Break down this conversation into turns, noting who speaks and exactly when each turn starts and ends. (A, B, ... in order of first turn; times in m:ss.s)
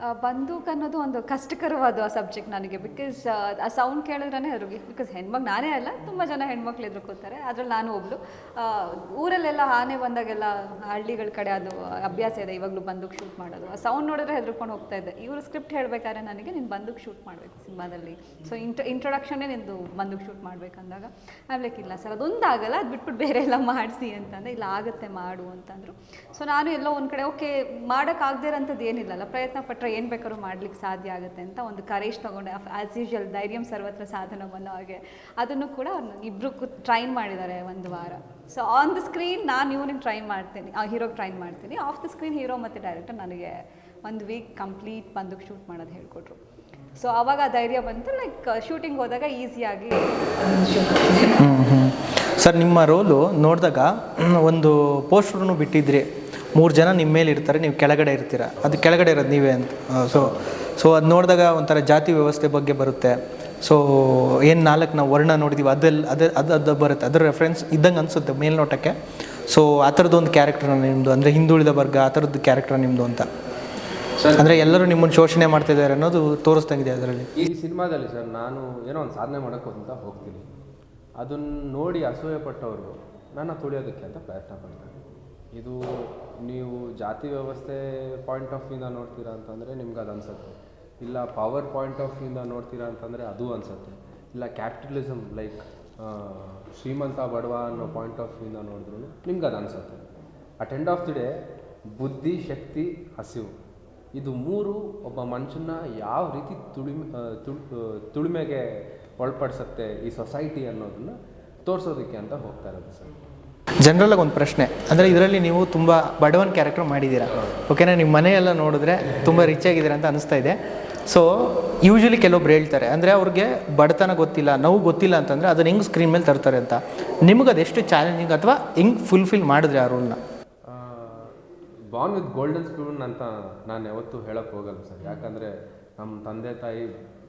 0:00.1-0:43.5 A
0:44.0-0:46.4 A
0:47.0-0:51.4 A
0:51.4-1:09.0 B
1:09.5-1:13.3 B
1:14.2-1:14.6 C
1:14.4-1:17.3 B
1:17.4-1:20.5 C
1:21.2-1:24.9 C
1:25.5-1:40.0 C
1:40.6-1:41.3 C
1:41.9-1:43.5 C
1:44.2-1:53.1 C
1:53.8-2:10.2 B
2:10.7-2:11.3 C
2:11.9-2:16.9 C